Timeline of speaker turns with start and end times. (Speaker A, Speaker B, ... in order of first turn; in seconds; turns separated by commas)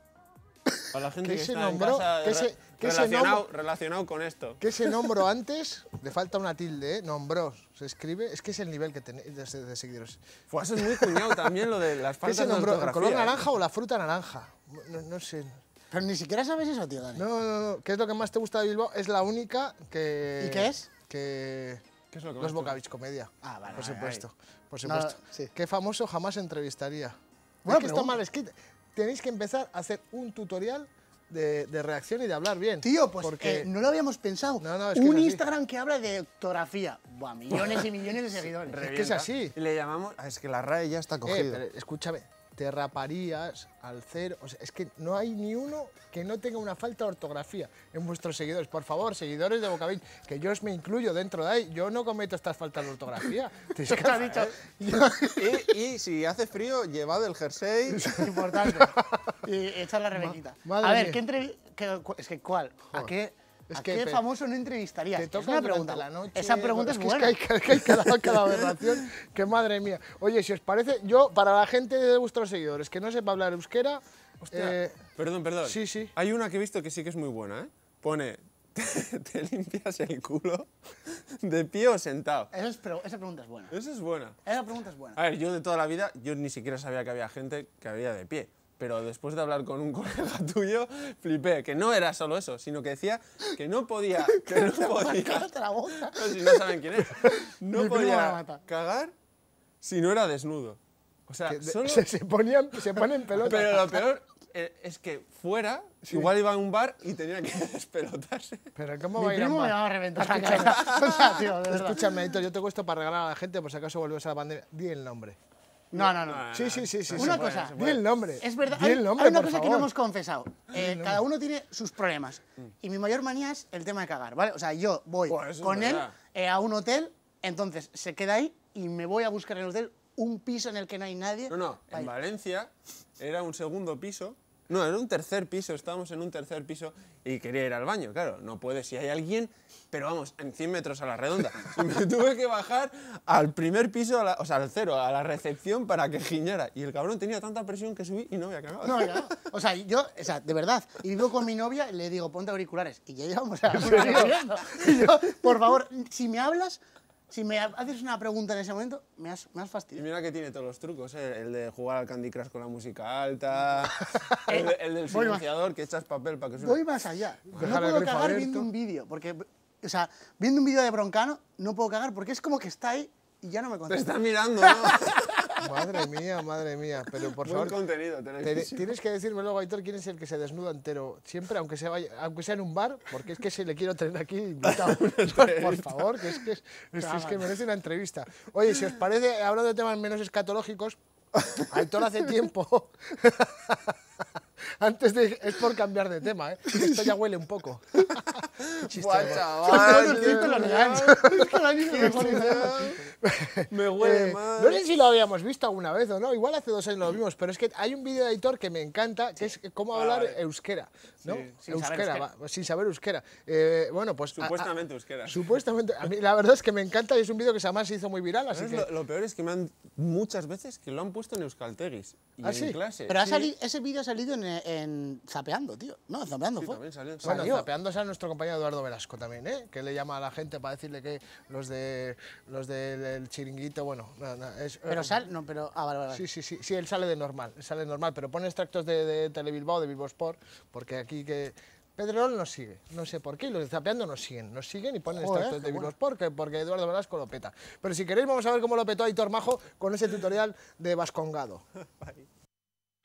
Speaker A: 0.9-4.6, Speaker B: 1.2-3.5, Speaker B: 4.6-10.2, Speaker A: 10.5-13.4, Speaker B: 10.8-11.4, Speaker B: 12.2-15.6, Speaker C: 15.9-17.2, Speaker B: 17.1-21.9, Speaker C: 20.4-20.9, Speaker A: 22.1-22.8, Speaker B: 22.4-33.7, Speaker C: 23.4-24.2, Speaker C: 24.8-25.5, Speaker C: 27.6-28.1, Speaker C: 32.8-38.8, Speaker B: 34.6-35.4, Speaker A: 37.5-41.6, Speaker B: 38.8-39.5, Speaker B: 41.2-55.2, Speaker C: 53.9-55.4, Speaker A: 55.4-58.2, Speaker B: 57.9-59.3, Speaker C: 58.1-67.4, Speaker B: 60.2-61.2, Speaker B: 63.7-64.2, Speaker B: 65.2-75.0, Speaker A: 74.5-82.5, Speaker B: 75.6-76.1, Speaker C: 82.5-83.7, Speaker A: 83.7-84.4, Speaker C: 84.5-85.2, Speaker A: 85.2-99.1, Speaker C: 94.3-96.6, Speaker C: 97.7-98.6, Speaker A: 99.8-102.0, Speaker B: 101.5-104.0, Speaker A: 103.4-108.7, Speaker B: 106.0-106.3, Speaker B: 108.8-115.4, Speaker C: 109.2-112.0, Speaker A: 110.5-111.3, Speaker C: 115.9-116.5, Speaker A: 115.9-118.1, Speaker B: 116.5-119.9, Speaker C: 117.1-117.8, Speaker C: 118.4-132.1, Speaker B: 120.7-121.2, Speaker A: 125.3-126.2, Speaker A: 131.5-149.3, Speaker C: 148.8-160.1, Speaker B: 153.8-154.3, Speaker A: 160.0-166.8, Speaker C: 164.5-165.4, Speaker C: 166.6-175.0, Speaker B: 167.6-168.7, Speaker A: 173.9-175.6, Speaker B: 175.6-177.8, Speaker A: 177.4-178.9, Speaker B: 178.4-191.0, Speaker A: 184.7-186.2, Speaker C: 187.0-187.4, Speaker B: 191.5-194.0, Speaker B: 194.8-214.7, Speaker A: 198.2-201.2, Speaker C: 199.4-202.8, Speaker A: 201.9-203.0, Speaker A: 203.7-204.8, Speaker A: 209.9-210.4, Speaker C: 211.5-212.3, Speaker A: 214.3-215.4, Speaker B: 215.2-218.9, Speaker A: 218.5-223.5, Speaker B: 222.4-222.8, Speaker C: 223.1-227.7, Speaker A: 226.6-227.6, Speaker B: 227.2-235.2, Speaker C: 234.9-236.2, Speaker B: 236.1-251.7, Speaker C: 245.1-245.9, Speaker A: 252.0-252.2